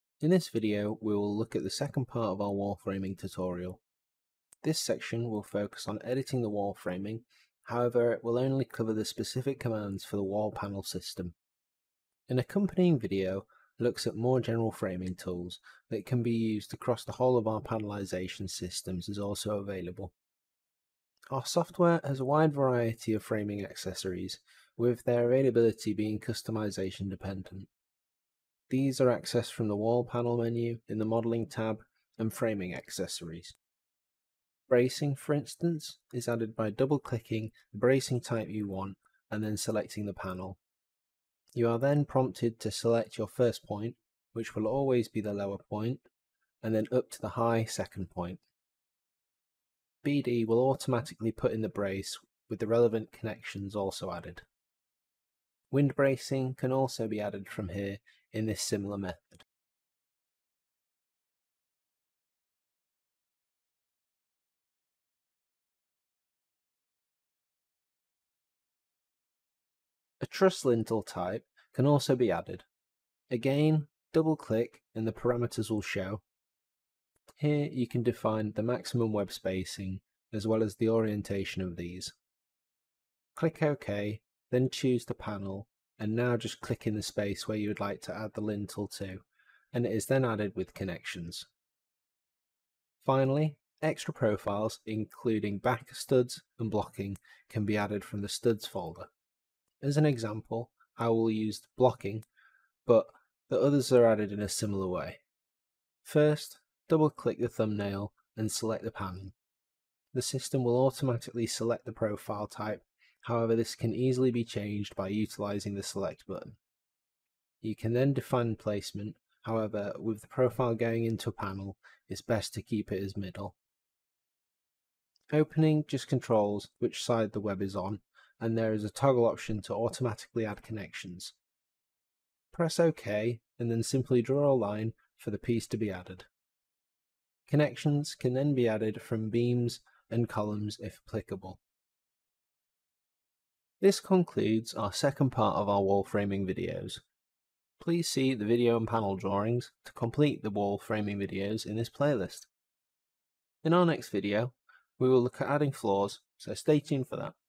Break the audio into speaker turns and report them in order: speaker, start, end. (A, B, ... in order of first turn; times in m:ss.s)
0:00.2-0:03.8 A
0:04.6-0:11.4 A
0:12.3-0:20.1 A
0:21.3-0:27.7 A
0:28.7-0:33.5 A
0:34.7-0:40.6 A
0:41.6-0:46.0 A
0:46.6-0:48.4 A
0:50.0-0:54.4 A
0:55.7-0:59.5 A
1:10.2-1:12.7 A
1:13.3-1:16.2 A
1:17.4-1:22.1 A
1:23.4-1:31.5 A
1:33.0-1:39.1 A
1:39.8-1:42.2 A
1:42.9-1:45.2 A
1:46.0-1:49.4 A
1:50.1-1:56.6 A
1:57.6-2:03.6 A
2:05.3-2:11.4 A
2:12.5-2:16.3 A
2:17.5-2:21.6 A
2:23.8-2:27.0 A
2:27.8-2:32.5 A
2:33.6-2:37.4 A